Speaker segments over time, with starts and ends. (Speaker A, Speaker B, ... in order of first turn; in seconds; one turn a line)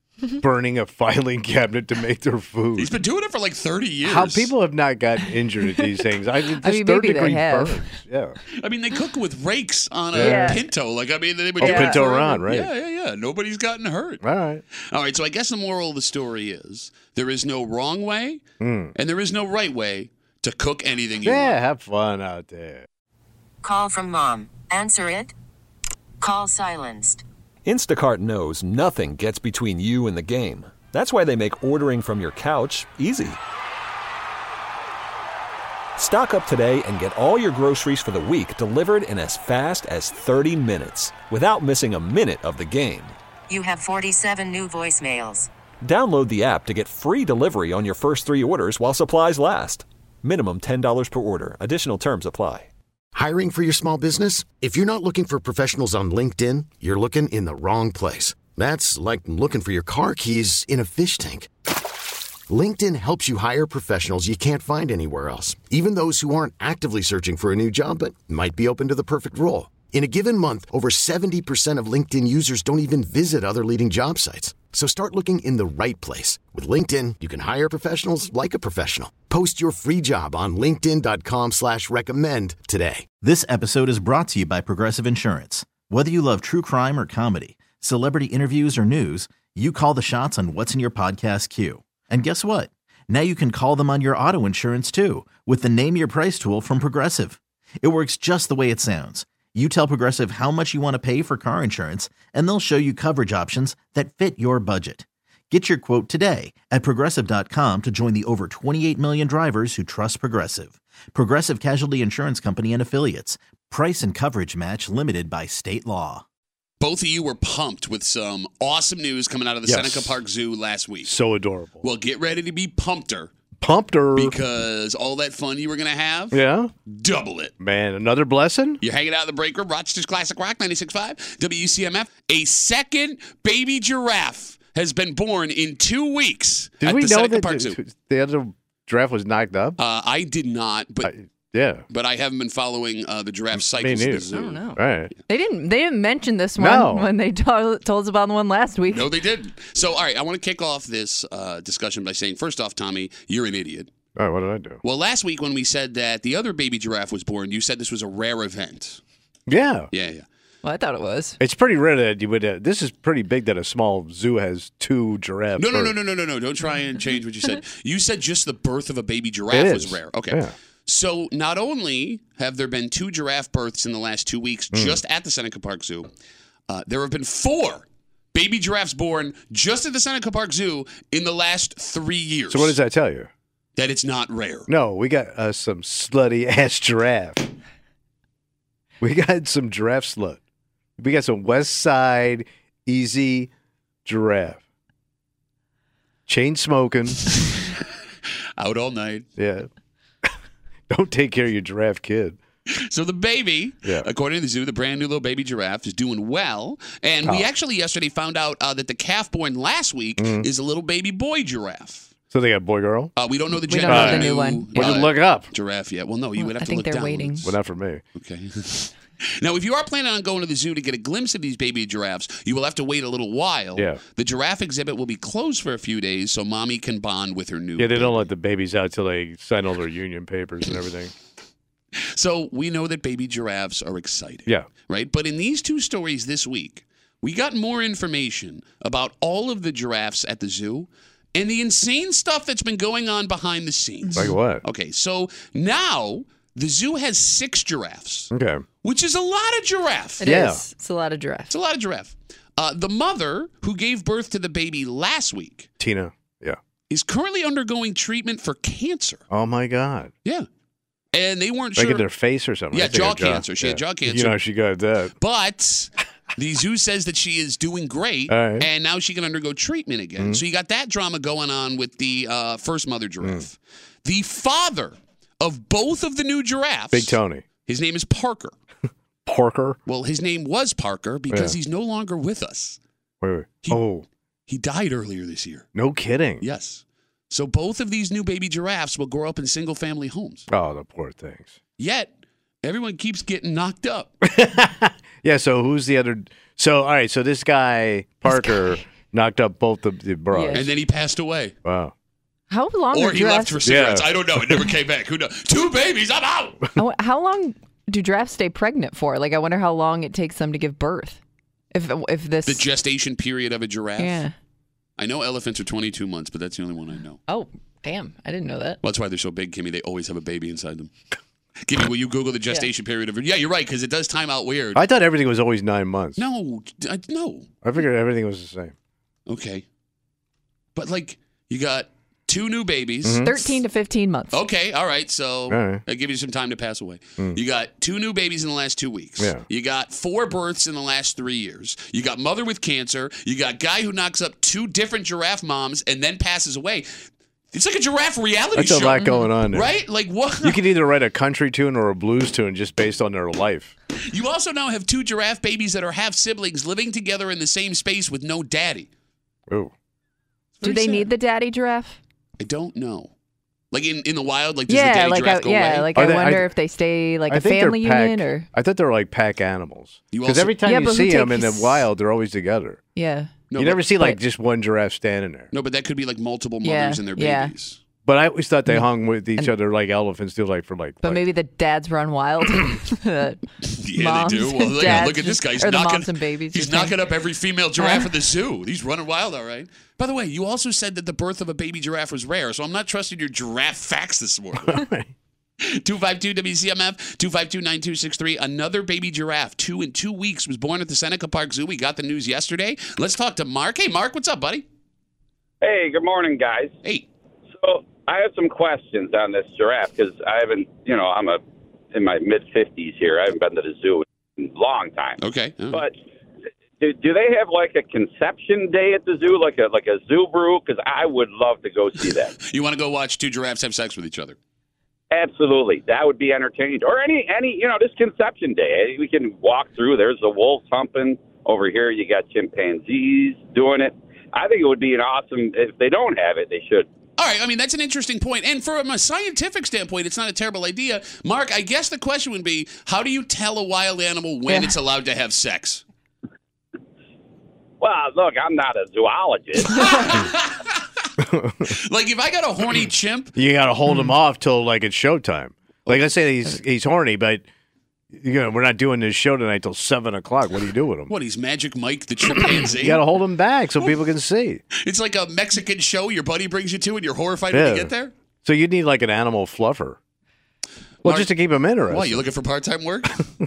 Speaker A: 0.4-2.9
Speaker B: 2.8-4.5
Speaker A: 4.0-8.4
Speaker C: 6.6-7.9
Speaker B: 8.6-14.2
Speaker A: 10.1-10.6
Speaker C: 10.2-10.6
Speaker A: 11.6-12.7
Speaker C: 11.6-12.2
Speaker A: 14.2-14.6
Speaker B: 14.9-18.4
Speaker A: 18.6-18.9
Speaker B: 19.0-21.6
Speaker A: 21.2-22.9
Speaker D: 23.6-25.3
Speaker D: 26.2-27.2
Speaker E: 27.7-33.4
Speaker E: 36.0-43.1
Speaker D: 43.5-45.5
Speaker E: 45.8-52.7
Speaker F: 53.1-61.5
Speaker F: 62.5-83.1
Speaker G: 83.2-116.2
Speaker B: 116.8-121.1
Speaker A: 119.7-120.2
Speaker A: 121.0-121.8
Speaker B: 121.8-123.3
Speaker A: 123.6-124.4
Speaker B: 124.2-127.5
Speaker A: 126.3-126.7
Speaker A: 127.6-128.8
Speaker B: 128.8-137.8
Speaker A: 136.8-139.8
Speaker B: 139.8-141.1
Speaker A: 141.0-141.8
Speaker B: 141.9-144.7
Speaker A: 143.6-145.1
Speaker C: 144.3-149.1
Speaker A: 146.6-147.1
Speaker B: 148.9-153.9
Speaker A: 154.2-154.8
Speaker B: 154.8-159.0
Speaker A: 159.5-159.9
Speaker B: 159.9-160.3
Speaker C: 160.6-161.4
Speaker A: 161.4-165.9
Speaker B: 165.6-176.1
Speaker A: 169.5-170.5
Speaker A: 174.7-175.0
Speaker B: 176.7-182.8
Speaker A: 182.5-183.3
Speaker B: 183.8-184.7
Speaker A: 184.7-187.5
Speaker A: 189.0-190.4
Speaker A: 191.0-193.5
Speaker A: 194.1-194.6
Speaker A: 196.3-197.3
Speaker B: 198.6-199.3
Speaker A: 199.4-199.7
Speaker A: 200.9-202.4
Speaker B: 202.7-212.1
Speaker A: 207.2-207.5
Speaker A: 210.2-210.5
Speaker A: 212.3-213.1
Speaker B: 213.2-217.5
Speaker C: 213.7-214.9
Speaker A: 213.8-215.5
Speaker C: 216.4-217.5
Speaker A: 217.4-218.0
Speaker B: 218.2-228.3
Speaker A: 227.8-231.1
Speaker B: 231.9-248.3
Speaker C: 244.1-244.3
Speaker A: 244.2-244.6
Speaker A: 248.3-248.7
Speaker B: 248.8-250.2
Speaker C: 250.2-251.5
Speaker A: 250.2-250.6
Speaker B: 251.5-255.7
Speaker A: 255.8-256.6
Speaker B: 256.9-259.2
Speaker A: 259.3-260.1
Speaker B: 261.1-262.1
Speaker A: 261.8-265.1
Speaker B: 262.7-264.4
Speaker B: 265.2-278.5
Speaker A: 268.3-268.7
Speaker A: 276.9-277.4
Speaker A: 279.3-279.8
Speaker B: 279.9-282.8
Speaker A: 281.3-281.6
Speaker A: 283.2-284.1
Speaker B: 284.5-285.7
Speaker A: 285.8-286.4
Speaker B: 286.4-290.5
Speaker A: 290.5-291.6
Speaker B: 291.8-292.1
Speaker B: 292.6-294.1
Speaker A: 294.2-300.7
Speaker C: 298.3-298.8
Speaker C: 300.3-300.6
Speaker B: 300.5-301.5
Speaker A: 301.6-301.9
Speaker C: 302.5-303.6
Speaker B: 302.9-306.6
Speaker A: 303.6-304.6
Speaker C: 306.8-311.2
Speaker C: 311.7-312.6
Speaker B: 312.5-314.2
Speaker C: 314.0-314.3
Speaker B: 315.0-317.2
Speaker C: 317.3-318.8
Speaker B: 318.8-320.9
Speaker B: 321.6-324.8
Speaker A: 324.8-326.2
Speaker B: 326.2-327.5
Speaker A: 327.6-328.7
Speaker B: 329.3-329.6
Speaker B: 330.8-333.5
Speaker A: 333.0-333.3
Speaker C: 333.2-334.4
Speaker B: 334.3-350.6
Speaker A: 335.5-335.8
Speaker A: 348.6-349.7
Speaker A: 350.4-353.7
Speaker B: 354.1-358.9
Speaker B: 360.6-361.1
Speaker C: 360.6-362.0
Speaker B: 362.4-363.1
Speaker B: 363.7-365.9
Speaker C: 364.7-368.5
Speaker A: 365.9-366.5
Speaker A: 367.3-372.8
Speaker B: 370.1-370.6
Speaker C: 370.6-371.9
Speaker C: 373.0-373.3
Speaker B: 373.5-373.8
Speaker A: 373.6-375.5
Speaker B: 375.5-377.8
Speaker C: 376.6-377.5
Speaker A: 378.1-381.2
Speaker C: 381.0-383.4
Speaker B: 383.6-394.8
Speaker C: 384.0-387.0
Speaker C: 387.8-388.1
Speaker A: 394.6-395.1
Speaker B: 395.6-404.6
Speaker H: 405.6-406.8
Speaker H: 407.6-411.4
Speaker H: 411.9-415.2
Speaker B: 415.2-415.8
Speaker H: 415.7-416.0
Speaker H: 416.8-422.4
Speaker B: 422.4-424.4
Speaker H: 425.1-436.9
Speaker B: 437.2-445.8
Speaker C: 444.5-444.7
Speaker H: 447.8-450.2
Speaker B: 449.7-451.1
Speaker A: 451.2-451.7
Speaker B: 451.7-453.3
Speaker A: 453.4-457.4
Speaker A: 458.1-461.1
Speaker B: 461.1-463.0
Speaker A: 462.4-464.6
Speaker B: 464.7-468.1
Speaker A: 467.5-467.9
Speaker A: 468.4-470.0
Speaker B: 471.0-471.3
Speaker A: 471.0-472.2
Speaker B: 471.9-473.2